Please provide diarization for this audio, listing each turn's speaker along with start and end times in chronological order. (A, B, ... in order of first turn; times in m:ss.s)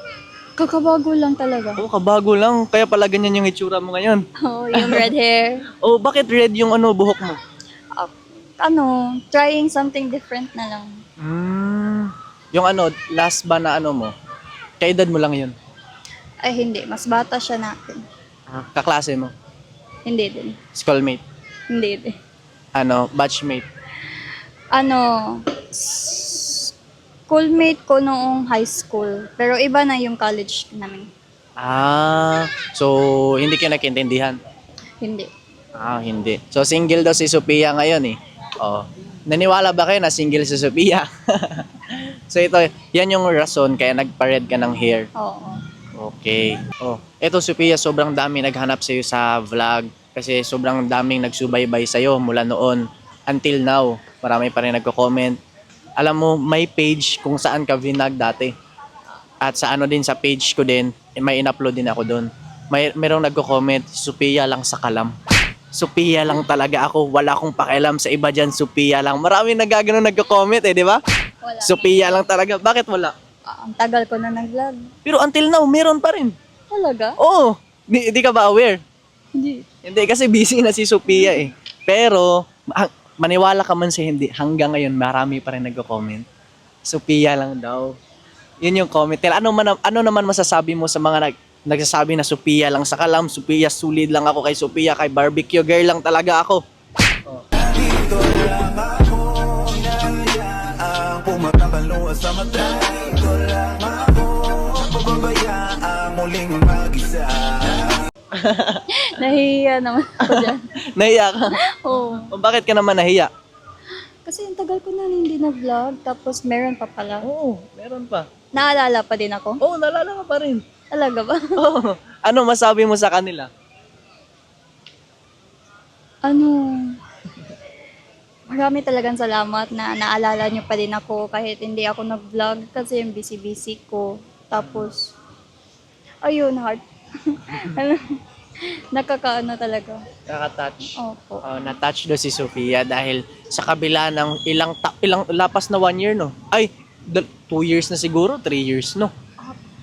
0:00.6-0:01.8 A
0:01.8-0:05.1 B
0:04.4-0:05.6 A
0:05.8-0:07.4 B
0:08.0-0:11.0 A
0:11.2-0:14.1 B
0:14.8-0:15.5 B
0:16.4-0:18.0 A
0:18.5-0:19.3 B
0:20.0-0:20.6 A
0:20.7-0:21.2 B
0:21.7-0:22.2 A
0:22.8-0:23.6 B
0:24.7-0:26.7 A
0:27.3-0:31.1 A
0:31.6-0:34.4 B
0:35.0-0:35.3 A
0:35.8-0:45.1 B
0:45.2-0:45.6 A
0:46.0-0:55.4 B
0:56.0-0:58.5 B
0:59.4-1:05.1 B
1:05.7-1:11.0 B
1:11.4-1:12.3 A
1:11.6-1:13.1 B
1:13.5-1:14.8 A
1:15.0-1:16.3 B
1:16.7-1:17.2 A
1:17.2-1:18.8 B
1:19.3-1:19.7 A
1:19.8-1:26.2 B
1:26.8-1:27.9 B
1:28.6-1:36.6 B
1:37.6-1:47.9 C
1:48.3-1:48.8 B
1:48.9-1:50.7 A
1:50.2-1:53.3 B
1:51.5-1:52.3 A
1:54.2-1:57.2 A
1:57.2-1:58.3 B
1:58.5-1:59.6 A
1:59.6-2:00.6 B
2:00.9-2:01.6 A
2:01.6-2:03.5 B
2:06.2-2:07.0 A
2:08.5-2:15.1 A
2:14.6-2:14.9 B
2:16.2-2:20.0 A
2:20.3-2:29.1 B
2:20.9-2:21.4 A